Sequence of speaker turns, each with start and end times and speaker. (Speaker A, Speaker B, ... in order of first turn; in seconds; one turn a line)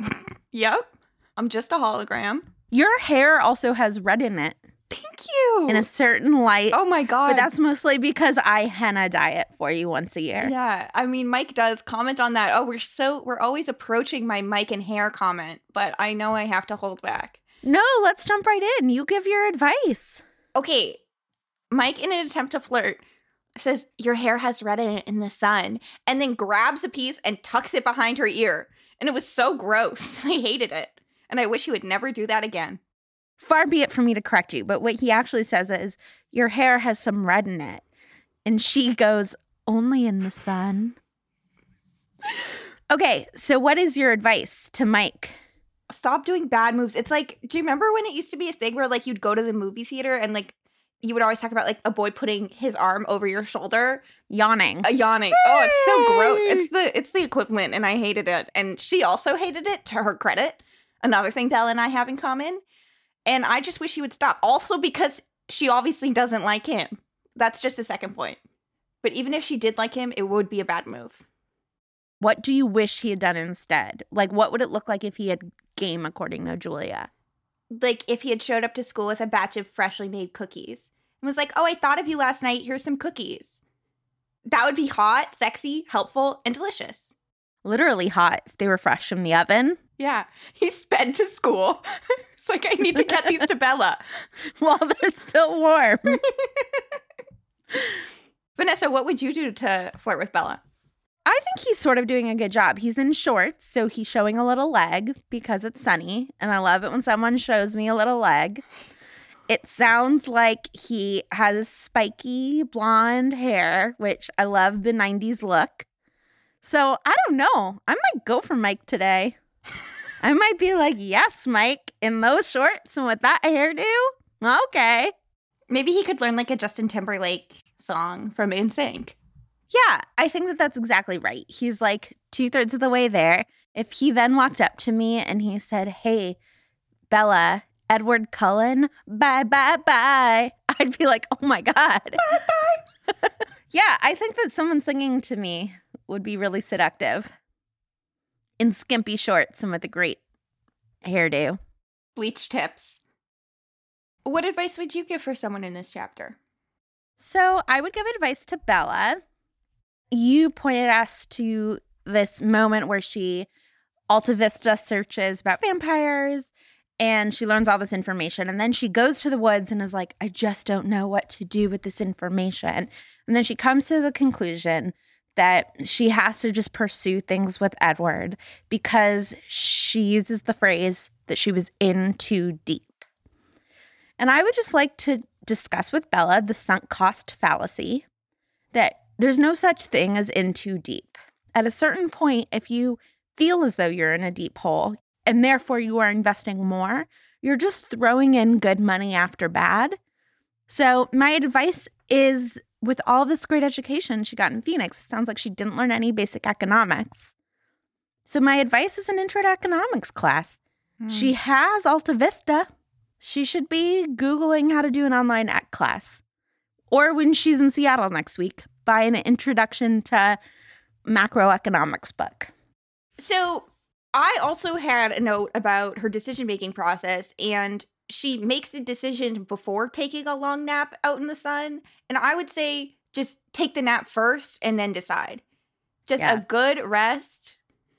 Speaker A: 0.5-2.5
Speaker B: 2.7-4.6
Speaker A: 4.9-5.8
Speaker B: 5.7-10.5
Speaker A: 6.7-7.5
Speaker A: 10.4-17.4
Speaker B: 17.6-20.2
Speaker A: 20.5-21.0
Speaker A: 21.7-23.0
Speaker A: 23.6-32.8
Speaker B: 33.4-37.8
Speaker B: 38.5-41.0
Speaker B: 42.9-45.4
Speaker A: 45.9-54.0
Speaker B: 54.3-56.7
Speaker A: 54.8-62.6
Speaker A: 63.2-68.4
Speaker A: 69.0-71.2
Speaker B: 72.2-77.1
Speaker A: 77.7-83.6
Speaker A: 84.5-87.1
Speaker B: 87.6-89.8
Speaker A: 90.0-91.8
Speaker A: 92.4-94.0
Speaker B: 93.0-93.4
Speaker B: 94.6-96.2
Speaker A: 96.2-96.8
Speaker A: 98.6-100.6
Speaker B: 101.2-108.6
Speaker B: 109.5-115.8
Speaker B: 116.6-119.3
Speaker B: 120.2-125.1
Speaker A: 125.7-129.2
Speaker B: 129.7-136.4
Speaker B: 137.1-142.4
Speaker A: 142.3-142.8
Speaker B: 143.7-147.3
Speaker B: 148.6-150.2
Speaker B: 151.0-151.6
Speaker A: 152.2-153.0
Speaker A: 154.2-156.4
Speaker B: 157.2-159.2
Speaker B: 160.1-163.5
Speaker B: 164.1-182.9
Speaker B: 184.2-188.0
Speaker B: 188.7-200.0
Speaker B: 200.7-207.3
Speaker B: 208.3-210.6
Speaker A: 211.0-211.3
Speaker B: 211.1-212.7
Speaker B: 213.2-216.2
Speaker B: 216.9-220.4
Speaker B: 221.1-222.5
Speaker A: 223.2-235.4
Speaker A: 236.1-237.6
Speaker B: 236.2-236.4